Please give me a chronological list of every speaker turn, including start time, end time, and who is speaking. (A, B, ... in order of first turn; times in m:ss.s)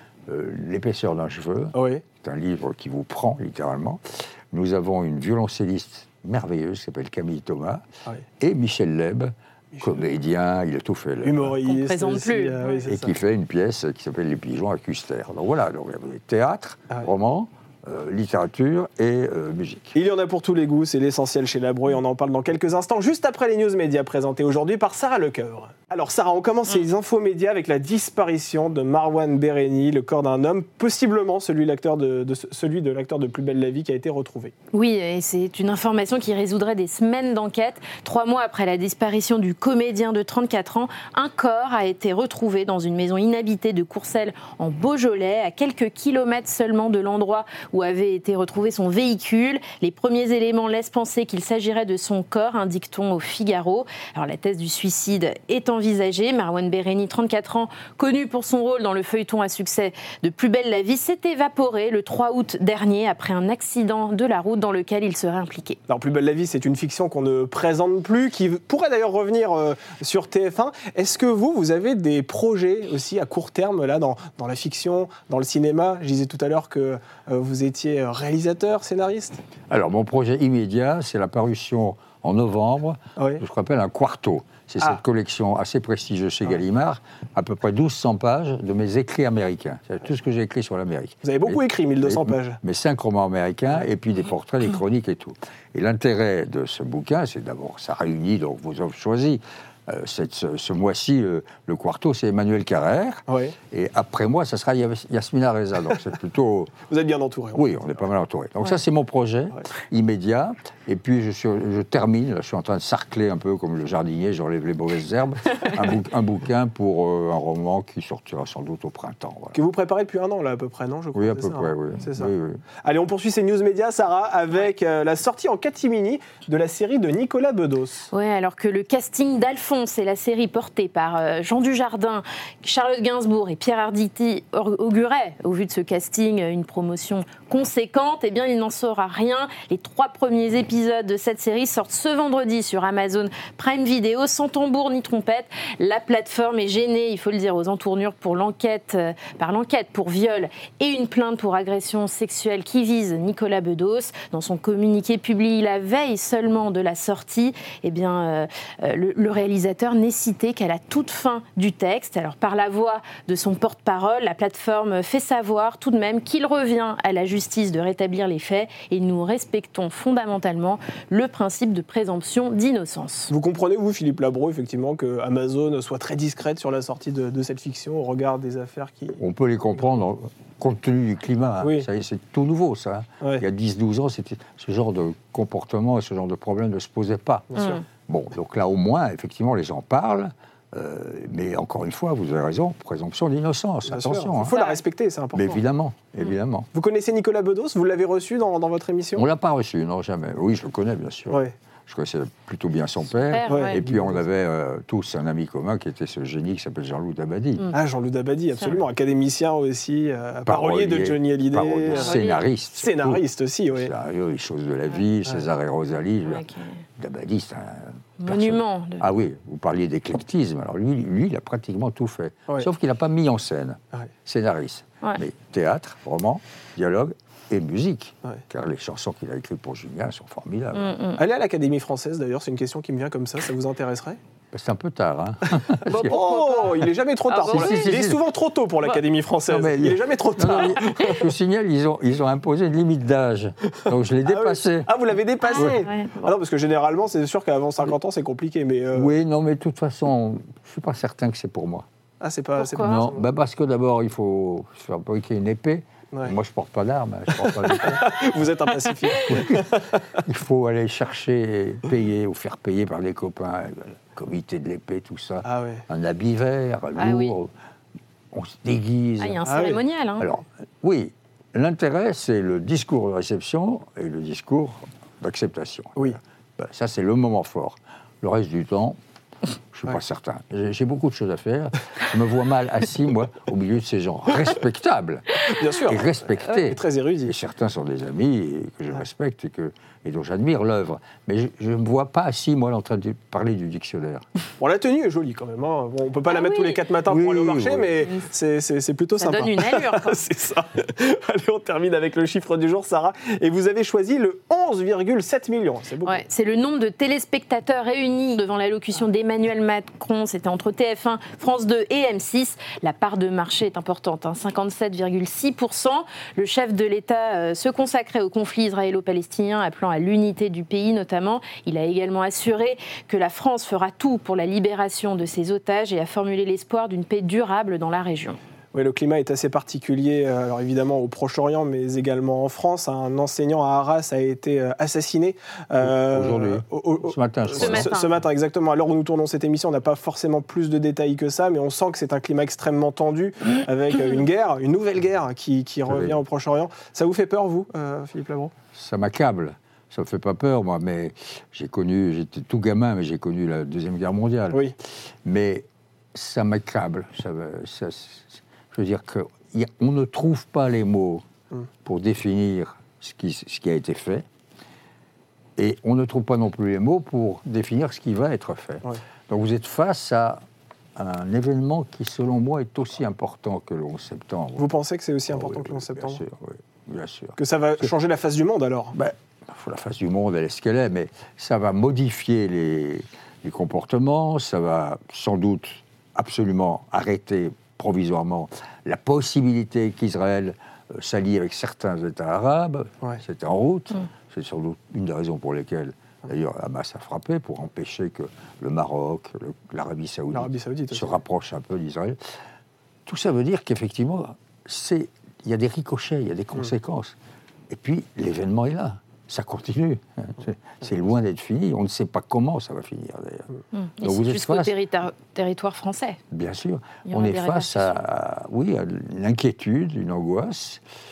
0:00.3-0:07.8 A
0:01.7-0:02.0 B
0:08.4-0:11.6 A
0:11.2-0:13.1 B
0:11.7-0:12.8 C
0:12.9-0:20.0 A
0:20.0-0:34.5 B
0:34.7-1:05.8 C
1:05.9-1:19.4 B
1:19.7-1:46.8 A
1:23.2-1:23.4 B
1:31.2-1:32.6 B
1:43.3-1:43.6 B
1:46.9-1:47.9 B
1:47.5-1:59.6 A
1:59.5-2:08.1 B
2:01.2-2:02.6 A
2:08.1-2:53.3 C
2:53.3-2:59.2 B
2:59.2-3:14.6 A
3:01.6-3:01.9 B
3:07.5-3:07.8 B
3:13.9-3:15.6 B
3:14.4-3:14.8 C
3:15.3-3:16.7 A
3:16.7-3:19.3 B
3:19.2-3:27.7 A
3:21.3-3:21.5 B
3:23.3-3:23.8 C
3:23.5-3:24.2 B
3:27.7-3:33.9 B
3:30.5-3:33.2 A
3:31.9-3:32.4 C
3:33.7-3:50.9 A
3:36.3-3:36.8 C
3:38.2-3:39.0 C
3:50.8-3:51.2 C
3:51.2-3:54.2 B
3:54.5-3:56.2 A
3:55.9-3:57.9 C
3:56.1-4:01.3 B
3:57.5-3:58.2 A
3:59.5-4:04.9 A
4:04.2-4:09.1 B
4:05.5-4:06.3 C
4:05.6-4:05.8 A
4:08.9-4:11.9 A
4:12.2-4:13.3 B
4:12.6-4:13.0 C
4:12.8-4:18.4 A
4:17.4-4:20.2 B
4:19.2-4:27.5 A
4:25.4-4:25.8 B
4:27.0-4:27.4 C
4:28.3-4:29.4 A
4:29.2-4:30.3 C
4:29.5-4:29.8 B
4:30.2-4:39.0 A
4:39.7-4:54.3 A
4:45.4-4:47.3 B
4:54.6-5:06.2 B
4:56.3-4:56.8 C
4:57.1-4:58.1 A
4:59.2-5:00.2 C
5:06.0-5:28.4 C
5:28.7-5:48.5 B
5:35.8-5:38.0 A
5:37.6-5:38.1 C
5:45.9-5:46.2 A
5:48.7-5:54.7 A
5:55.2-6:01.2 A
6:01.8-6:04.2 A
6:05.6-6:10.4 A
6:11.0-6:14.7 A
6:14.6-6:16.2 B
6:15.3-6:17.9 A
6:17.4-6:19.0 B
6:18.9-6:42.3 A
6:40.3-6:41.2 B
6:43.1-6:47.2 A
6:47.7-6:53.5 A
6:53.7-6:56.2 C
6:54.0-6:54.7 A
6:56.3-7:00.8 A
6:57.1-6:58.0 C